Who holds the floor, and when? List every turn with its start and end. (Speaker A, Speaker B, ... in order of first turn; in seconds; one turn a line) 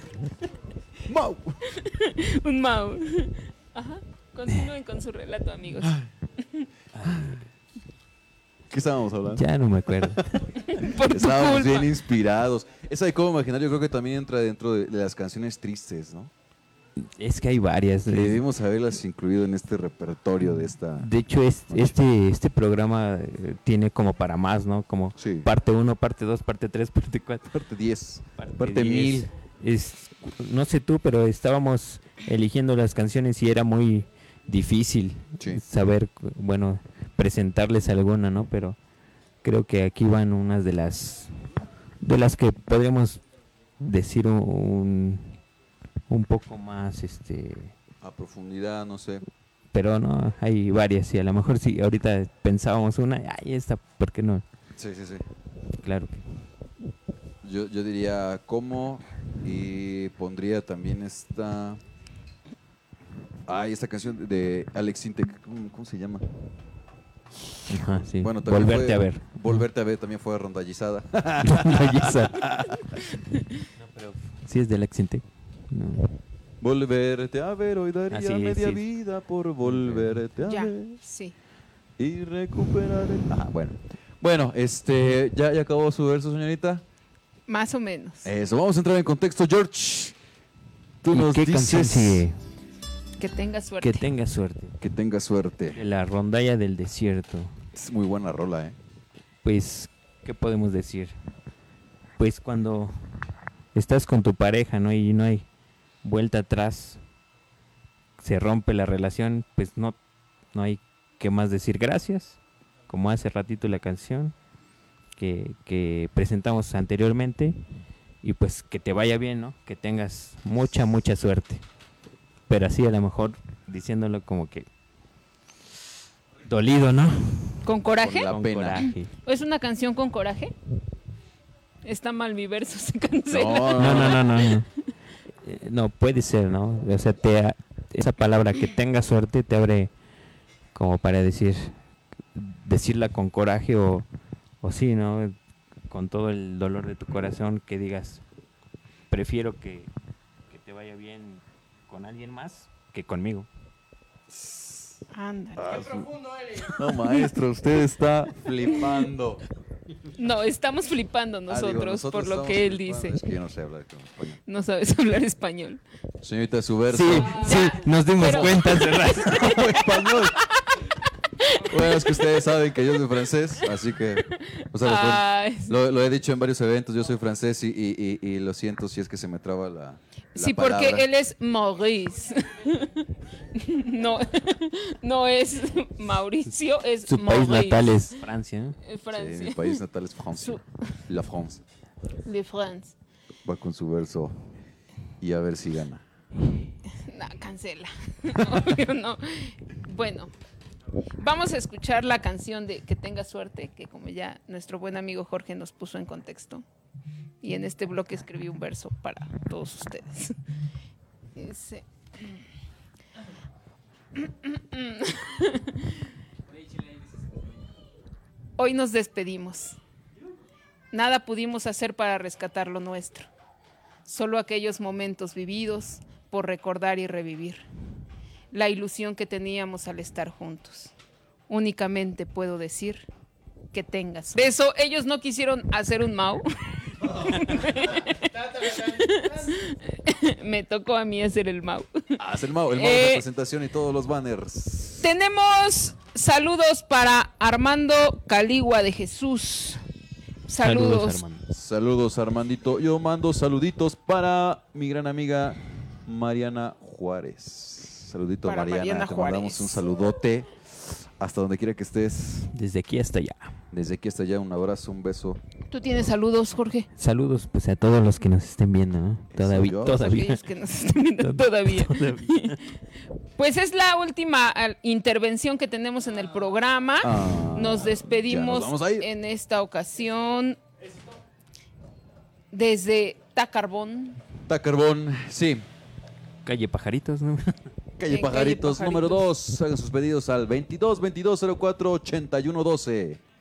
Speaker A: 1.1-1.6
Speaker B: 1.7-6.7
Speaker C: 6.9-7.5
Speaker A: 7.0-7.4
Speaker A: 8.7-16.3
Speaker C: 9.3-10.5
Speaker B: 10.6-11.9
Speaker C: 17.0-18.4
Speaker A: 18.1-21.1
Speaker C: 21.0-27.6
Speaker A: 21.7-21.9
Speaker A: 25.2-25.5
Speaker A: 27.5-29.3
Speaker C: 28.4-38.8
Speaker C: 39.4-41.4
Speaker C: 42.0-43.2
Speaker C: 43.8-45.4
Speaker C: 46.1-47.8
Speaker A: 48.0-49.2
Speaker C: 49.7-54.5
Speaker A: 54.8-55.3
Speaker C: 55.8-56.2
Speaker A: 57.4-61.8
Speaker A: 63.5-66.2
Speaker C: 67.7-69.6
Speaker A: 68.2-73.0
Speaker C: 71.4-72.6
Speaker C: 73.7-76.1
Speaker A: 76.6-81.0
Speaker C: 78.1-78.8
Speaker C: 79.6-80.2
Speaker B: 80.5-81.4
Speaker A: 82.0-86.8
Speaker B: 87.5-88.3
Speaker A: 88.2-90.2
Speaker A: 91.0-92.3
Speaker C: 91.1-92.4
Speaker B: 93.2-94.1
Speaker C: 93.8-94.8
Speaker A: 94.8-95.8
Speaker C: 95.7-97.6
Speaker A: 97.7-98.8
Speaker C: 99.4-101.2
Speaker C: 102.2-103.0
Speaker C: 103.8-105.5
Speaker C: 106.0-107.0
Speaker C: 108.2-110.0
Speaker C: 110.5-114.3
Speaker C: 115.2-117.6
Speaker C: 118.2-121.6
Speaker C: 122.5-124.7
Speaker C: 126.5-127.7
Speaker B: 127.7-128.3
Speaker A: 128.0-128.9
Speaker C: 128.3-129.1
Speaker B: 129.2-130.5
Speaker B: 131.8-134.7
Speaker A: 133.3-134.2
Speaker C: 133.8-134.7
Speaker C: 135.4-139.9
Speaker C: 140.7-141.8
Speaker C: 142.3-144.1
Speaker C: 144.6-145.4
Speaker C: 145.9-148.2
Speaker C: 149.1-149.9
Speaker C: 150.5-153.5
Speaker A: 154.3-155.0
Speaker B: 155.1-155.8
Speaker A: 155.6-159.4
Speaker B: 160.2-163.2
Speaker A: 161.5-164.4
Speaker B: 164.5-165.8
Speaker A: 166.2-167.6
Speaker C: 166.9-169.7
Speaker B: 167.2-172.8
Speaker A: 168.2-168.7
Speaker A: 169.3-170.4
Speaker A: 171.6-181.1
Speaker B: 174.3-175.8
Speaker B: 180.3-188.2
Speaker C: 187.1-188.8
Speaker B: 188.8-189.8
Speaker A: 189.1-191.6
Speaker B: 192.2-192.9
Speaker A: 193.4-194.4
Speaker A: 195.2-196.0
Speaker B: 196.9-200.3
Speaker B: 201.2-206.6
Speaker B: 207.4-210.4
Speaker B: 211.4-212.4
Speaker B: 214.2-215.9
Speaker B: 218.6-219.8
Speaker B: 220.9-223.3
Speaker B: 224.1-227.7
Speaker B: 228.5-230.9
Speaker B: 231.5-233.1
Speaker B: 233.7-243.2
Speaker A: 242.2-245.1
Speaker B: 245.0-249.8
Speaker B: 250.5-251.2
Speaker C: 250.6-251.5
Speaker A: 251.5-262.5
Speaker B: 258.5-259.8
Speaker C: 262.5-263.6
Speaker A: 263.7-265.4
Speaker B: 265.7-266.9
Speaker C: 267.0-270.4
Speaker A: 269.3-270.2
Speaker B: 269.9-272.6
Speaker C: 271.2-272.6
Speaker B: 273.4-280.6
Speaker A: 277.0-279.1
Speaker B: 282.5-284.2
Speaker A: 284.5-285.7
Speaker C: 286.4-287.7
Speaker A: 288.0-293.2
Speaker B: 288.1-289.2